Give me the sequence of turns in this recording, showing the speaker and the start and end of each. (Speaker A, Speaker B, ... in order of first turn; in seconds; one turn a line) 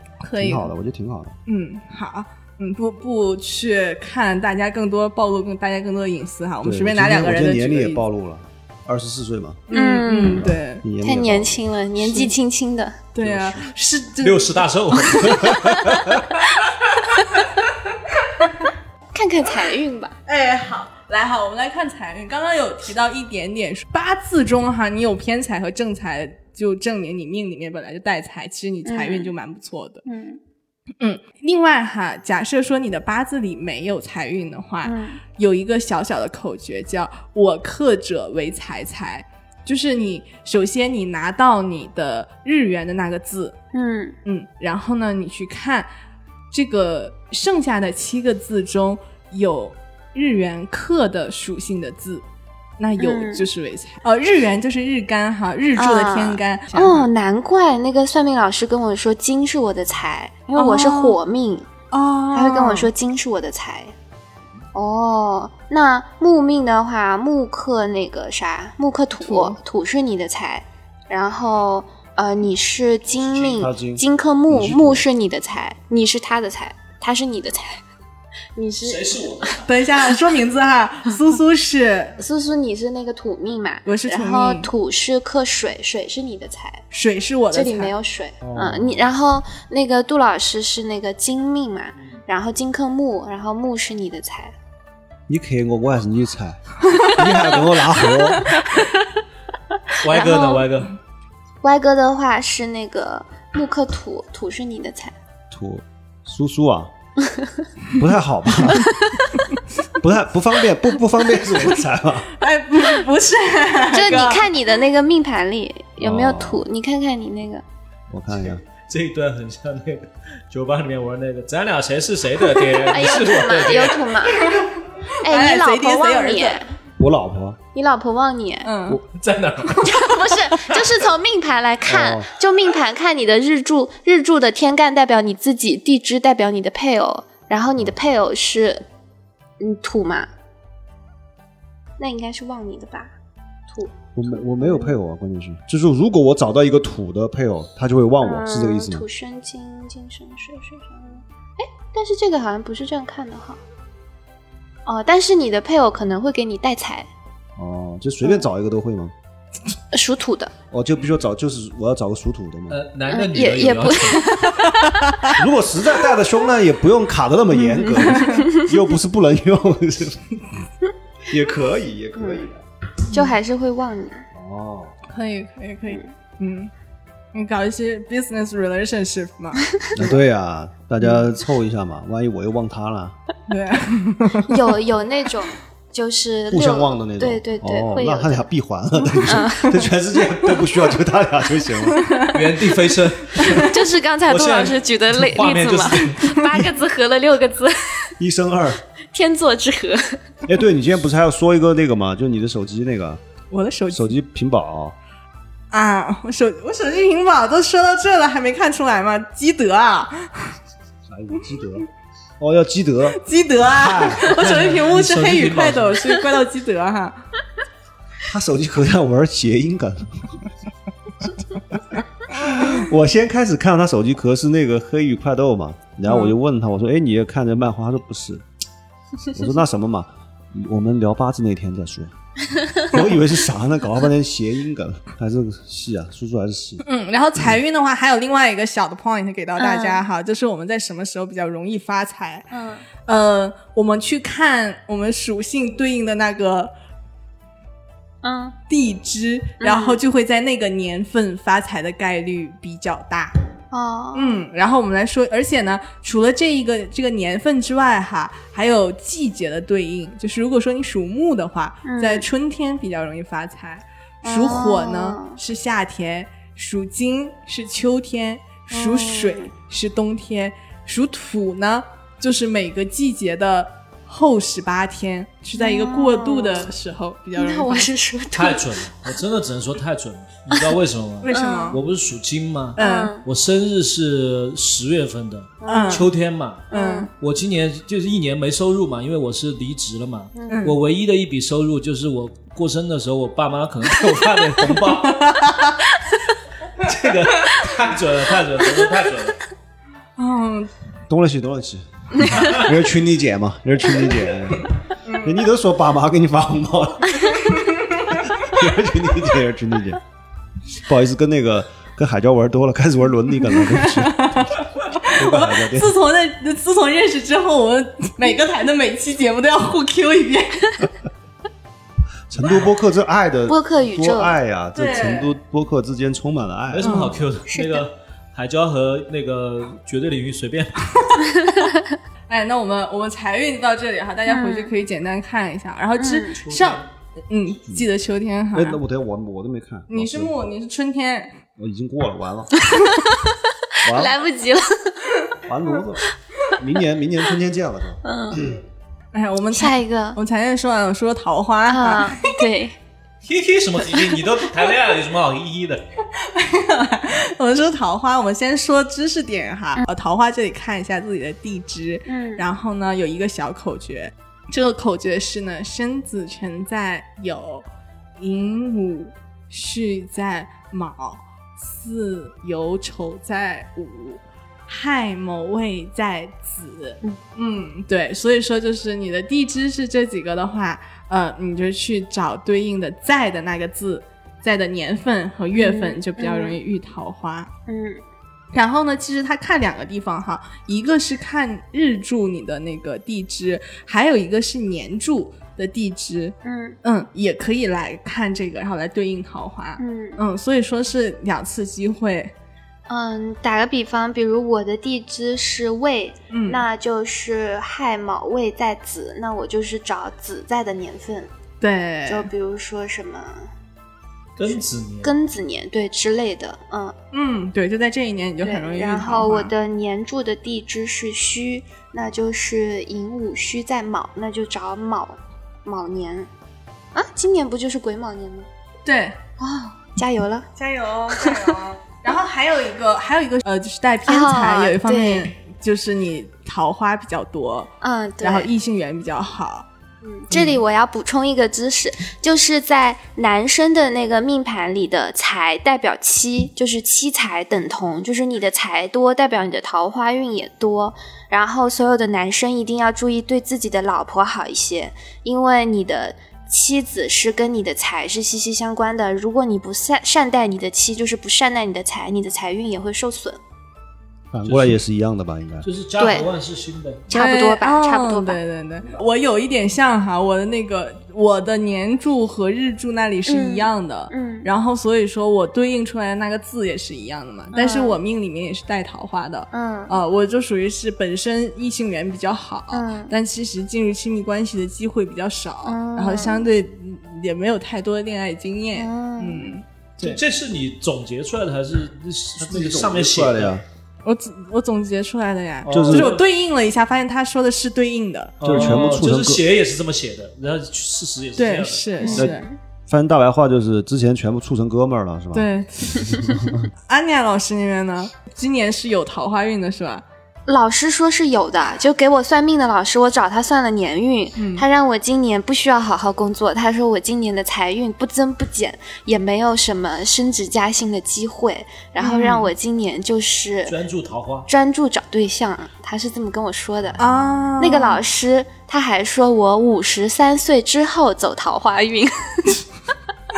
Speaker A: 0.2-0.7
Speaker B: 0.4-1.4
Speaker A: 1.5-8.0
Speaker B: 6.6-9.7
Speaker A: 9.7-10.8
Speaker C: 9.7-10.5
Speaker B: 10.3-11.6
Speaker C: 11.0-13.1
Speaker A: 13.1-15.5
Speaker B: 13.2-13.7
Speaker D: 14.2-16.2
Speaker B: 15.4-16.1
Speaker C: 17.1-17.4
Speaker C: 19.1-20.1
Speaker A: 20.2-30.0
Speaker C: 28.8-29.3
Speaker C: 30.0-30.4
Speaker A: 31.0-43.6
Speaker C: 34.8-35.2
Speaker C: 43.7-44.1
Speaker A: 44.2-45.9
Speaker A: 46.5-52.2
Speaker A: 52.8-57.1
Speaker C: 53.0-53.5
Speaker C: 55.8-61.7
Speaker A: 60.6-61.2
Speaker A: 61.9-62.9
Speaker C: 62.3-63.9
Speaker C: 64.7-77.8
Speaker A: 69.2-69.6
Speaker B: 73.4-75.0
Speaker C: 78.5-79.5
Speaker D: 78.8-79.8
Speaker A: 79.6-82.2
Speaker C: 82.2-86.8
Speaker A: 83.8-84.7
Speaker A: 86.9-87.9
Speaker C: 87.5-94.5
Speaker B: 88.4-89.0
Speaker B: 95.3-98.6
Speaker D: 100.0-100.9
Speaker C: 100.1-100.7
Speaker C: 101.6-105.1
Speaker B: 105.5-106.9
Speaker C: 107.2-107.5
Speaker B: 108.0-108.9
Speaker B: 110.0-112.3
Speaker A: 112.4-114.4
Speaker C: 113.9-117.6
Speaker B: 116.0-116.6
Speaker B: 118.1-118.6
Speaker D: 118.4-124.2
Speaker C: 122.9-124.5
Speaker A: 124.4-124.6
Speaker A: 125.2-126.6
Speaker C: 125.2-126.7
Speaker B: 127.0-127.6
Speaker C: 127.7-128.7
Speaker A: 128.6-129.0
Speaker D: 129.1-130.0
Speaker C: 129.8-138.8
Speaker B: 131.8-132.3
Speaker C: 139.6-140.3
Speaker C: 142.0-143.1
Speaker C: 143.7-144.9
Speaker B: 144.1-149.0
Speaker C: 148.2-153.6
Speaker C: 154.8-157.1
Speaker B: 157.6-159.1
Speaker C: 159.9-160.5
Speaker B: 160.7-162.8
Speaker D: 162.7-164.4
Speaker C: 163.1-164.7
Speaker A: 164.5-165.3
Speaker B: 165.3-170.2
Speaker C: 167.6-168.6
Speaker A: 168.1-168.4
Speaker B: 171.3-172.6
Speaker C: 172.2-172.4
Speaker C: 173.1-174.2
Speaker B: 174.3-174.9
Speaker A: 175.1-176.7
Speaker A: 177.3-179.8
Speaker B: 179.9-183.2
Speaker A: 183.5-184.6
Speaker C: 184.5-188.5
Speaker B: 186.5-192.1
Speaker C: 189.2-189.8
Speaker A: 191.9-192.4
Speaker D: 192.2-196.6
Speaker A: 193.3-193.7
Speaker C: 193.6-198.1
Speaker B: 198.2-198.8
Speaker C: 199.1-200.2
Speaker B: 200.4-203.2
Speaker A: 203.5-204.1
Speaker B: 203.9-204.9
Speaker A: 205.7-210.5
Speaker B: 211.1-211.9
Speaker B: 212.4-214.4
Speaker A: 213.1-217.2
Speaker D: 214.2-216.2
Speaker B: 218.2-220.4
Speaker B: 222.3-228.4
Speaker A: 226.1-226.3
Speaker B: 229.3-232.1
Speaker B: 232.8-236.8
Speaker A: 236.8-242.5
Speaker C: 239.6-240.0
Speaker C: 242.5-242.8
Speaker A: 243.0-246.7
Speaker C: 248.2-248.5
Speaker A: 248.7-253.3
Speaker C: 249.6-250.0
Speaker C: 253.7-254.4
Speaker A: 254.1-277.9
Speaker C: 261.8-262.3
Speaker C: 264.2-265.4
Speaker C: 268.7-269.5
Speaker C: 275.6-276.7
Speaker C: 277.4-278.7
Speaker D: 278.3-295.3
Speaker A: 281.2-281.8
Speaker C: 281.3-281.8
Speaker A: 282.8-283.1
Speaker C: 282.8-283.2
Speaker C: 285.6-286.1
Speaker A: 285.7-286.1
Speaker C: 286.7-287.1
Speaker A: 286.7-287.1
Speaker C: 290.3-290.6
Speaker A: 290.5-290.8
Speaker A: 295.0-295.7
Speaker D: 296.8-299.4
Speaker A: 300.2-300.7
Speaker B: 301.1-307.4
Speaker D: 302.3-302.6
Speaker A: 305.0-305.4
Speaker A: 307.4-308.2
Speaker B: 308.1-310.0
Speaker B: 310.8-314.5
Speaker A: 313.5-320.9
Speaker B: 315.0-316.0
Speaker B: 322.3-327.2
Speaker D: 322.3-322.7
Speaker C: 323.5-324.3
Speaker A: 324.7-325.3
Speaker D: 326.7-331.1
Speaker A: 326.8-327.2
Speaker C: 327.5-327.8
Speaker A: 332.3-338.8
Speaker C: 334.3-334.7
Speaker C: 336.0-336.4
Speaker D: 336.4-336.9
Speaker B: 338.5-340.3
Speaker A: 339.9-341.4
Speaker B: 341.6-342.5
Speaker C: 343.8-345.1
Speaker B: 343.8-344.2
Speaker B: 345.4-346.0
Speaker B: 346.5-348.6
Speaker C: 348.0-348.5
Speaker A: 349.1-352.3
Speaker C: 349.5-350.2
Speaker C: 351.7-352.8
Speaker D: 353.2-355.8
Speaker A: 356.2-367.7
Speaker C: 362.1-362.4
Speaker A: 368.2-387.5
Speaker C: 385.6-386.6
Speaker C: 387.7-388.0
Speaker A: 388.5-402.3
Speaker C: 396.4-396.8
Speaker C: 399.8-400.2
Speaker C: 402.9-411.3
Speaker A: 406.3-406.6
Speaker A: 411.6-412.3
Speaker C: 412.1-413.5
Speaker D: 414.4-415.1
Speaker C: 415.0-416.9
Speaker A: 417.1-419.5
Speaker C: 418.4-426.3
Speaker C: 426.9-428.5
Speaker A: 428.8-429.2
Speaker C: 429.4-430.5
Speaker A: 430.6-439.6
Speaker C: 431.1-431.5
Speaker C: 434.1-435.3
Speaker C: 437.8-438.5
Speaker C: 440.0-463.4
Speaker B: 464.3-465.7
Speaker D: 464.4-464.8
Speaker D: 465.6-467.1
Speaker C: 466.0-466.3
Speaker C: 467.1-468.4
Speaker A: 467.1-490.2
Speaker C: 473.2-474.5
Speaker C: 477.5-478.0
Speaker C: 479.5-480.0
Speaker C: 482.7-483.1
Speaker C: 485.6-486.5
Speaker C: 488.7-489.6
Speaker D: 490.0-493.5
Speaker B: 492.4-493.6
Speaker A: 494.0-499.0
Speaker D: 495.6-496.2
Speaker B: 495.7-496.1
Speaker D: 498.4-502.2
Speaker B: 498.4-499.4
Speaker A: 501.4-502.5
Speaker C: 502.0-502.6
Speaker B: 502.9-505.5
Speaker A: 505.3-510.0
Speaker B: 506.0-506.7
Speaker C: 510.5-523.7
Speaker A: 514.4-514.6
Speaker A: 522.0-522.5
Speaker D: 523.7-524.5
Speaker C: 524.5-527.0
Speaker A: 527.0-528.0
Speaker B: 527.0-527.5
Speaker C: 527.6-532.6